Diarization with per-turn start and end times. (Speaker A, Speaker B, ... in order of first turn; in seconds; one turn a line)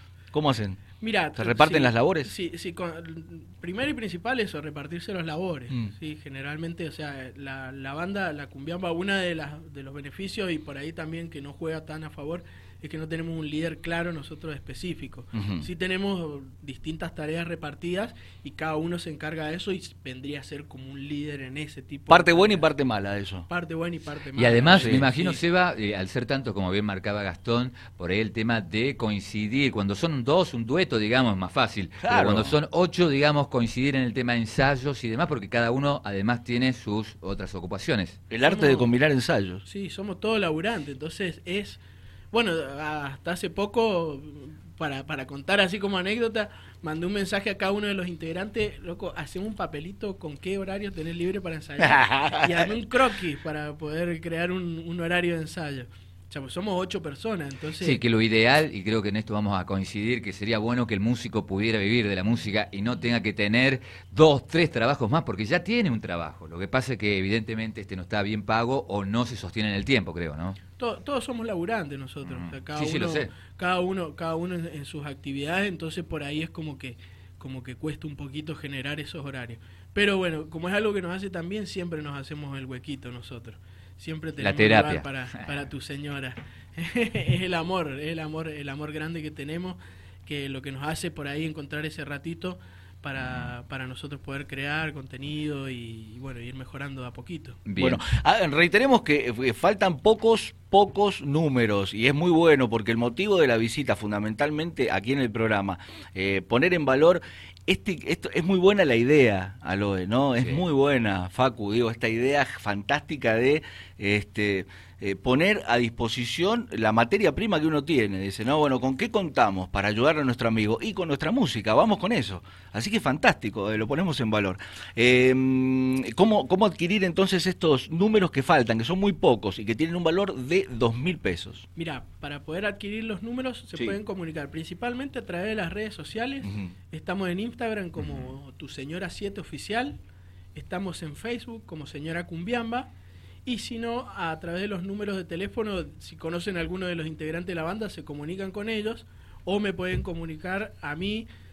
Speaker A: 0.3-0.8
Speaker B: 1.0-22.7
Speaker A: 1.4-2.3
Speaker A: 15.3-15.7
Speaker A: 22.1-23.5
Speaker B: 23.5-25.4
Speaker C: 24.4-38.2
Speaker A: 24.7-25.1
Speaker A: 32.0-32.6
Speaker A: 38.3-39.6
Speaker B: 38.4-38.9
Speaker B: 39.6-41.8
Speaker B: 42.3-58.0
Speaker A: 51.8-52.7
Speaker C: 57.8-70.6
Speaker B: 70.8-97.6
Speaker C: 72.2-73.3
Speaker C: 84.4-85.4
Speaker C: 93.2-93.5
Speaker C: 97.7-98.0
Speaker A: 97.8-131.7
Speaker C: 110.4-110.6
Speaker B: 131.8-140.0
Speaker A: 136.4-136.7
Speaker A: 138.0-138.3
Speaker B: 140.6-142.9
Speaker B: 143.5-151.3